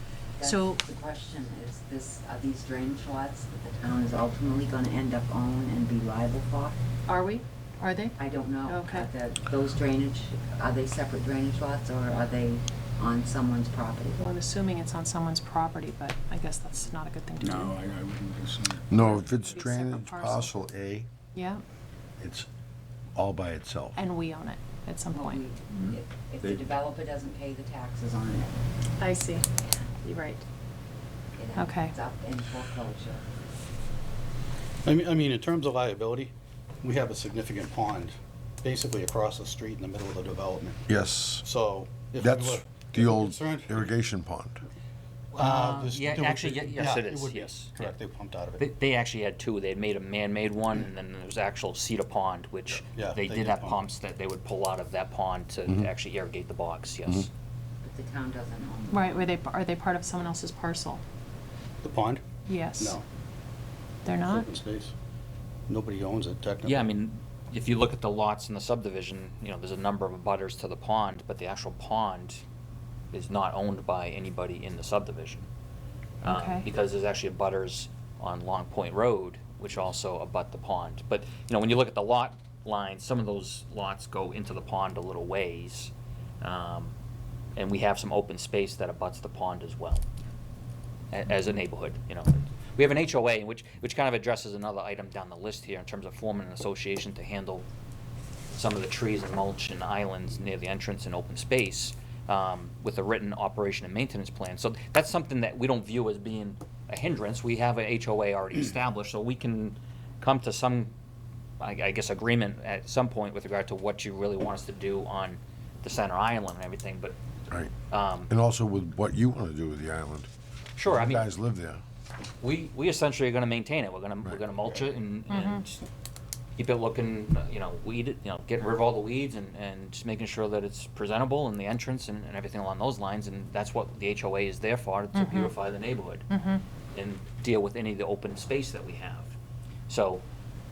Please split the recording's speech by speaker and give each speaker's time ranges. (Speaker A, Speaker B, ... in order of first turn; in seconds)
Speaker A: 0.4-6.8, 8.2-14.2, 25.1-28.6, 31.4-33.2, 57.8-59.3
Speaker B: 0.4-0.8, 7.1-9.1, 14.2-17.8, 18.9-20.5, 21.3-21.6, 23.9-25.4, 29.0-30.4, 31.5-31.9, 58.9-61.0, 62.5-63.0, 64.0-64.5, 76.2-76.7, 125.3-125.6, 135.1-135.5, 136.3-136.6
Speaker C: 17.4-19.1, 25.9-26.6
Speaker D: 18.9-21.1, 22.2-22.5, 23.1-24.0, 40.9-41.5, 42.2-44.6, 118.3-120.3, 120.8-121.8
Speaker E: 34.8-36.3, 36.8-40.8, 41.4-43.9, 45.3-48.6, 52.9-53.8, 61.8-62.2, 62.8-63.0, 64.2-64.9, 65.7-66.9
Speaker F: 45.3-47.9, 48.6-57.3, 66.6-72.4, 73.1-75.5, 76.2-86.9, 87.5-90.0, 91.1-97.7, 98.5-110.9, 111.6-117.2, 117.9-118.3, 120.8-121.2, 122.4-125.8, 126.6-136.2, 136.9-139.3, 139.9-140.2